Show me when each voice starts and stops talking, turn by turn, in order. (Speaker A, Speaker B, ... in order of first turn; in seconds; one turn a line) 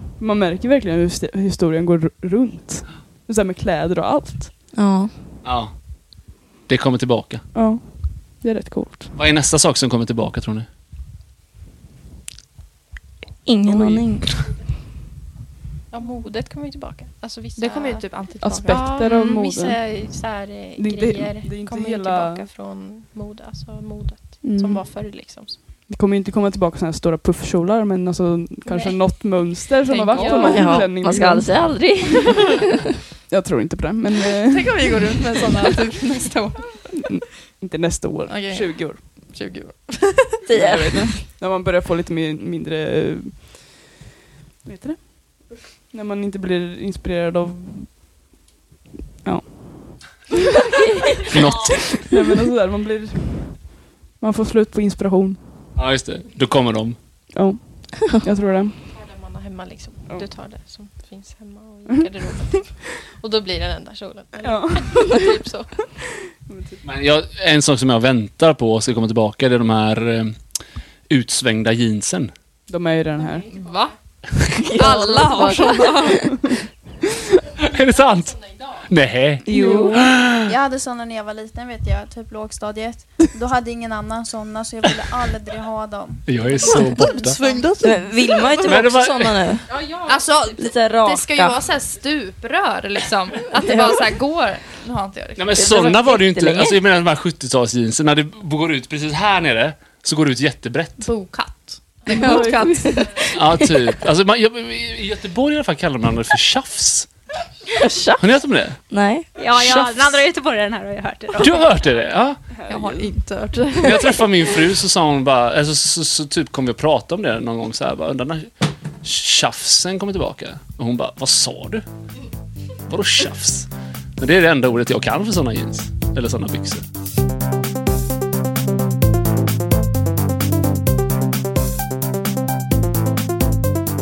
Speaker A: 0.1-4.6
Speaker B: 4.7-5.1
Speaker C: 5.4-5.7
Speaker C: 6.7-7.5
Speaker A: 7.5-9.1
Speaker C: 9.2-10.7
Speaker B: 13.5-14.3
Speaker A: 13.7-14.0
Speaker D: 15.9-25.6
Speaker E: 17.6-18.9
Speaker A: 18.4-19.8
Speaker A: 20.8-22.5
Speaker A: 24.4-25.1
Speaker A: 25.9-31.9
Speaker D: 28.7-30.9
Speaker E: 29.9-30.9
Speaker B: 30.4-32.8
Speaker A: 33.3-35.0
Speaker E: 34.4-36.8
Speaker A: 36.9-39.0
Speaker E: 38.3-40.4
Speaker B: 40.5-41.2
Speaker A: 40.5-43.7
Speaker A: 44.6-48.0
Speaker A: 49.2-50.1
Speaker B: 50.7-51.5
Speaker C: 51.3-52.1
Speaker A: 51.9-55.4
Speaker C: 55.8-57.0
Speaker A: 57.3-58.8
Speaker D: 58.9-65.9
Speaker A: 64.4-65.2
Speaker A: 65.9-66.8
Speaker C: 66.8-70.4
Speaker C: 71.1-72.3
Speaker A: 72.7-73.6
Speaker E: 73.5-73.9
Speaker B: 74.4-76.2
Speaker E: 74.7-76.5
Speaker C: 77.6-80.4
Speaker B: 79.4-80.1
Speaker A: 79.5-80.0
Speaker F: 80.4-86.5
Speaker C: 86.3-87.4
Speaker E: 87.1-88.6
Speaker D: 87.3-87.7
Speaker B: 87.8-89.7
Speaker C: 88.6-89.4
Speaker D: 89.7-90.2
Speaker E: 90.0-95.8
Speaker B: 90.6-91.6
Speaker B: 93.6-94.0
Speaker C: 95.4-101.1
Speaker B: 95.6-96.8
Speaker E: 101.0-103.1
Speaker B: 102.1-103.8
Speaker A: 102.1-102.7
Speaker C: 103.3-107.1
Speaker B: 107.8-108.3
Speaker C: 108.2-108.8
Speaker B: 108.9-109.3
Speaker G: 109.4-111.7
Speaker C: 109.5-110.1
Speaker C: 111.4-113.1
Speaker A: 112.6-112.9
Speaker E: 112.7-114.1
Speaker B: 113.5-114.3
Speaker C: 113.8-121.9
Speaker C: 122.9-126.8